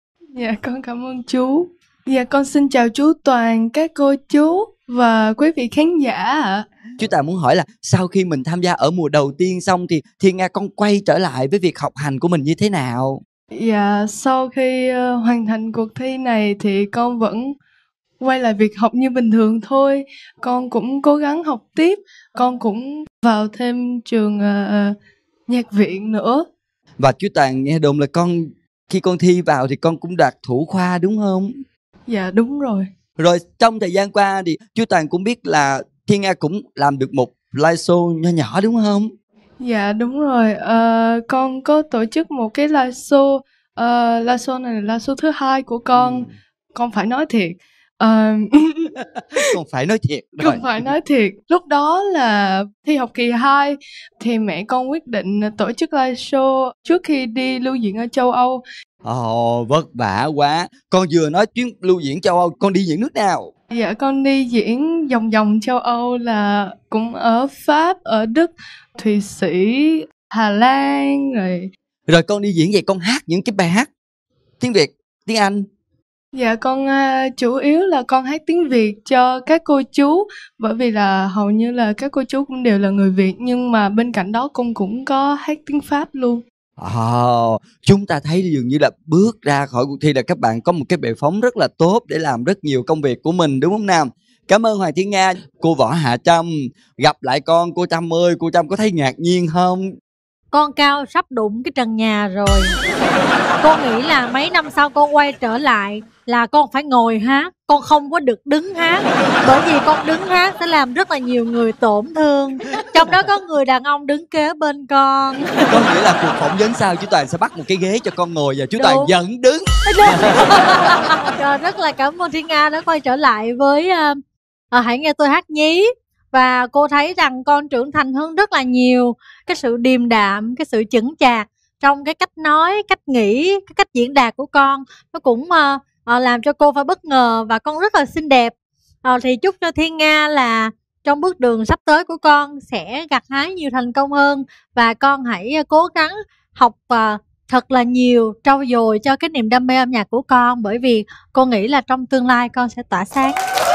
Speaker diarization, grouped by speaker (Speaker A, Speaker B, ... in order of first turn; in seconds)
Speaker A: 0.3-6.7, 13.5-17.6, 18.2-25.0, 25.5-26.5, 32.1-32.9, 39.6-49.5, 50.4-58.6, 63.7-71.7, 76.3-86.4
Speaker B: 7.0-13.2, 27.0-31.5, 33.2-39.1, 45.9-46.3, 49.4-50.9, 59.0-63.5, 72.1-73.9, 74.6-75.7, 86.8-99.8, 115.7-119.7
Speaker C: 100.5-102.7, 103.6-115.8, 118.8-119.2, 119.9-124.2, 124.7-153.4